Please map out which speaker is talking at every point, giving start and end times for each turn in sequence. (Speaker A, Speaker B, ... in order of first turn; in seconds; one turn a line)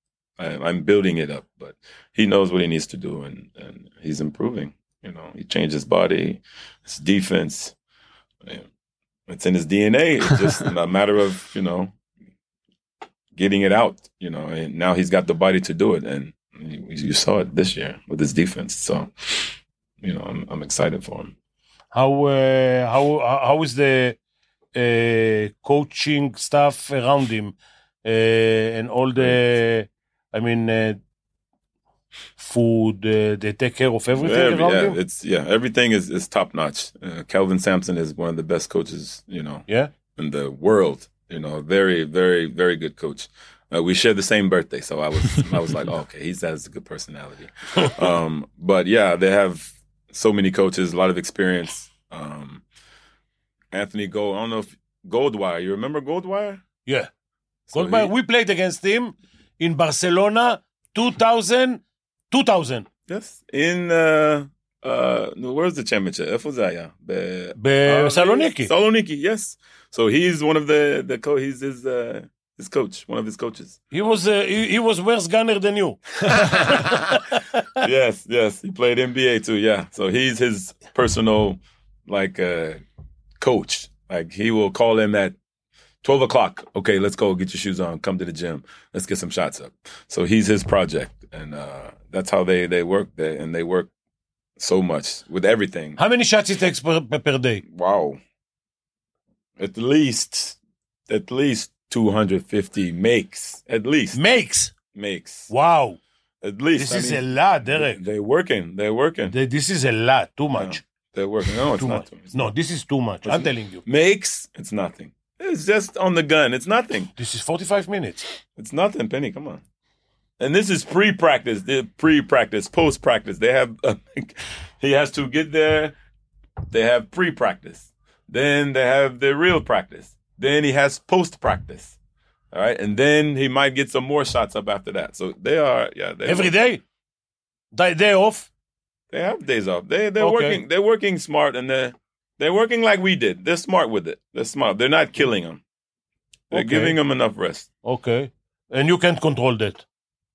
Speaker A: 0.4-7.7
Speaker A: 9.3-11.9
Speaker A: 13.3-21.3
Speaker B: 21.9-24.2
Speaker B: 24.7-31.0
Speaker B: 32.4-35.0
Speaker A: 34.1-52.6
Speaker A: 53.7-56.6
Speaker A: 57.7-58.1
Speaker B: 57.7-62.9
Speaker A: 63.1-73.8
Speaker B: 67.6-68.7
Speaker B: 73.9-77.4
Speaker A: 76.4-77.0
Speaker A: 77.8-82.8
Speaker A: 83.4-85.3
Speaker A: 86.0-93.9
Speaker A: 94.6-96.0
Speaker B: 96.0-97.6
Speaker A: 97.7-98.2
Speaker A: 99.6-100.5
Speaker A: 101.1-104.2
Speaker B: 104.1-104.7
Speaker A: 104.9-105.5
Speaker B: 105.5-106.0
Speaker A: 106.4-109.3
Speaker B: 106.7-108.0
Speaker B: 109.3-110.8
Speaker A: 110.5-112.5
Speaker B: 111.8-113.8
Speaker A: 113.2-117.1
Speaker B: 117.2-118.3
Speaker A: 118.5-119.6
Speaker A: 120.4-125.9
Speaker A: 126.7-131.9
Speaker A: 132.5-136.5
Speaker B: 136.2-136.8
Speaker B: 137.7-138.5
Speaker A: 139.1-145.6
Speaker B: 140.2-140.6
Speaker B: 146.5-147.0
Speaker A: 146.5-147.7
Speaker B: 147.8-149.8